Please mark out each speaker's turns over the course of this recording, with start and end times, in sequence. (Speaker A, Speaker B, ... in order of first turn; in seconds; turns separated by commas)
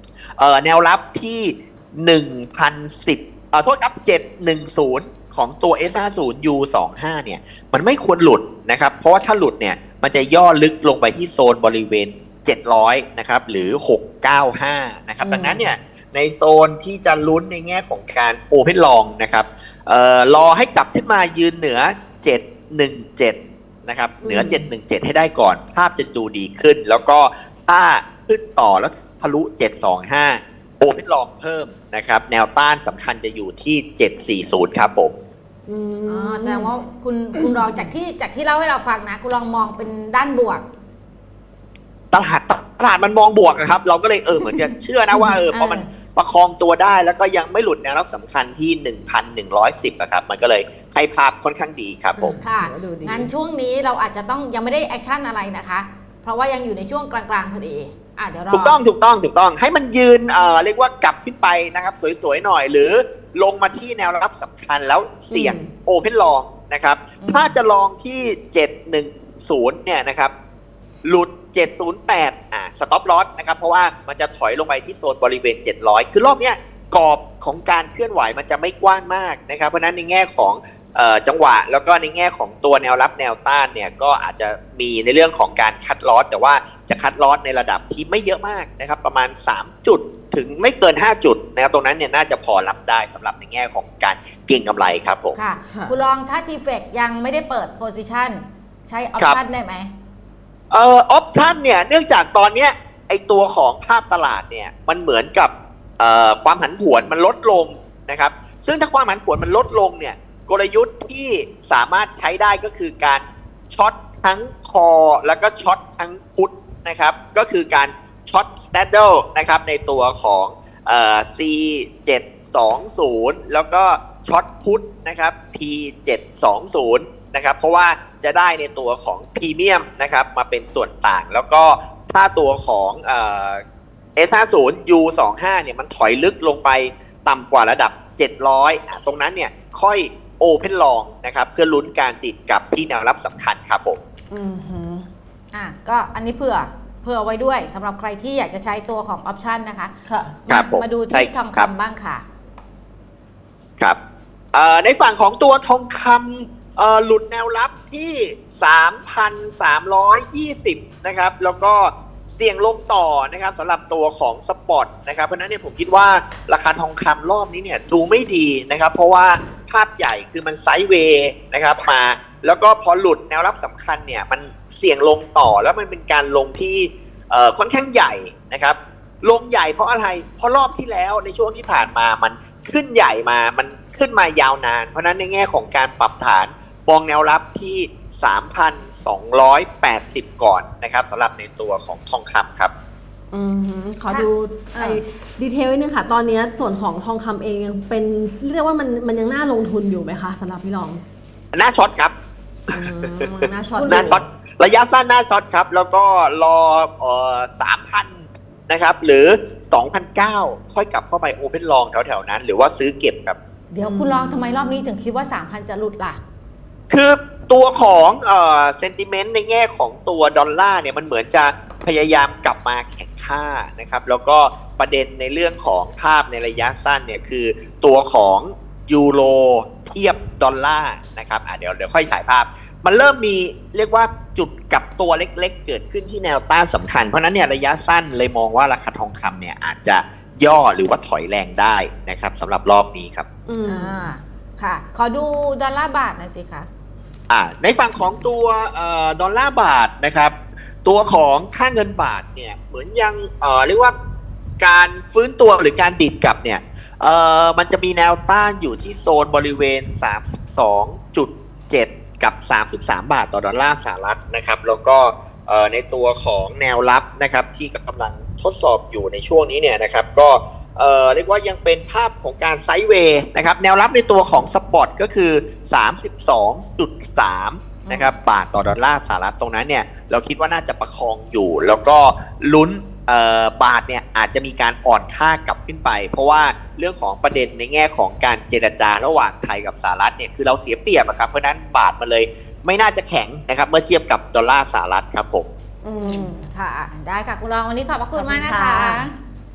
Speaker A: 0.4-35.1, Speaker B: 15.2-15.7, Speaker B: 24.2-24.7, Speaker B: 35.7-36.7, Speaker C: 36.1-40.6, Speaker A: 42.1-52.4, Speaker C: 45.5-45.9, Speaker B: 52.2-53.3, Speaker C: 52.4-58.8, Speaker A: 58.5-70.3, Speaker B: 65.3-65.7, Speaker C: 67.2-67.6, Speaker A: 71.0-95.4, Speaker C: 95.4-99.9, Speaker B: 95.7-96.0, Speaker A: 100.7-133.6, Speaker A: 134.2-144.0, Speaker B: 144.3-145.1, Speaker C: 145.5-149.9, Speaker B: 150.1-150.4, Speaker C: 150.5-152.2, Speaker A: 150.5-151.7, Speaker A: 154.5-192.7, Speaker B: 193.3-201.0, Speaker C: 194.1-195.0, Speaker A: 201.5-202.1, Speaker A: 202.7-213.4, Speaker B: 202.7-204.2, Speaker C: 203.7-204.2, Speaker C: 213.7-216.2, Speaker B: 213.8-214.9, Speaker A: 216.9-243.3, Speaker B: 243.5-244.1, Speaker C: 243.7-246.7, Speaker A: 247.3-253.9, Speaker A: 254.6-295.5, Speaker C: 277.8-278.1, Speaker B: 295.8-296.4, Speaker C: 296.0-299.1, Speaker B: 298.1-299.0